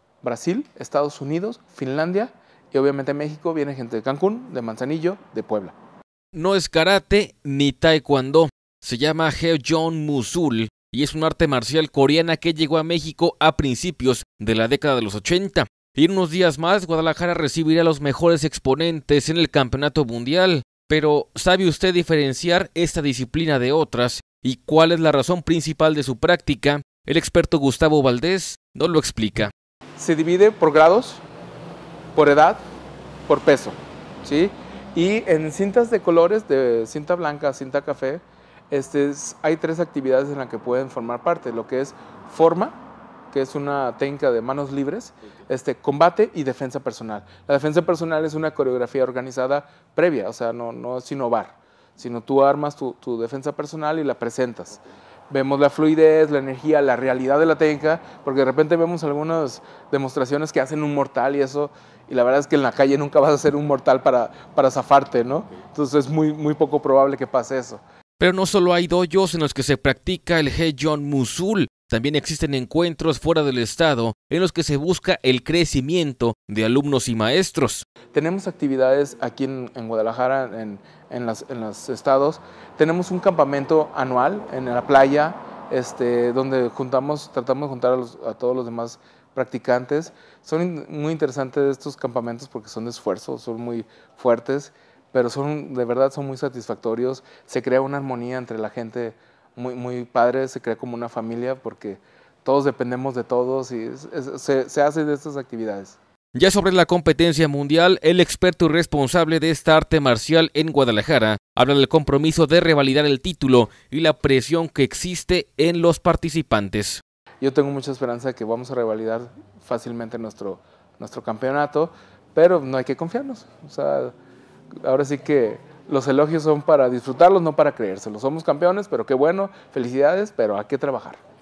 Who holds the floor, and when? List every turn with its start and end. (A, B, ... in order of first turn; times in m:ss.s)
0:00.2-0:05.7 A
0:06.3-0:29.5 B
0:30.0-0:31.2 A
0:32.1-0:32.6 A
0:33.3-0:42.7 A
0:43.3-0:54.8 A
0:55.3-1:07.8 A
1:08.2-1:17.8 B
1:18.1-1:46.0 A
1:46.4-1:57.0 B
1:57.4-2:04.1 A
2:04.8-2:11.2 A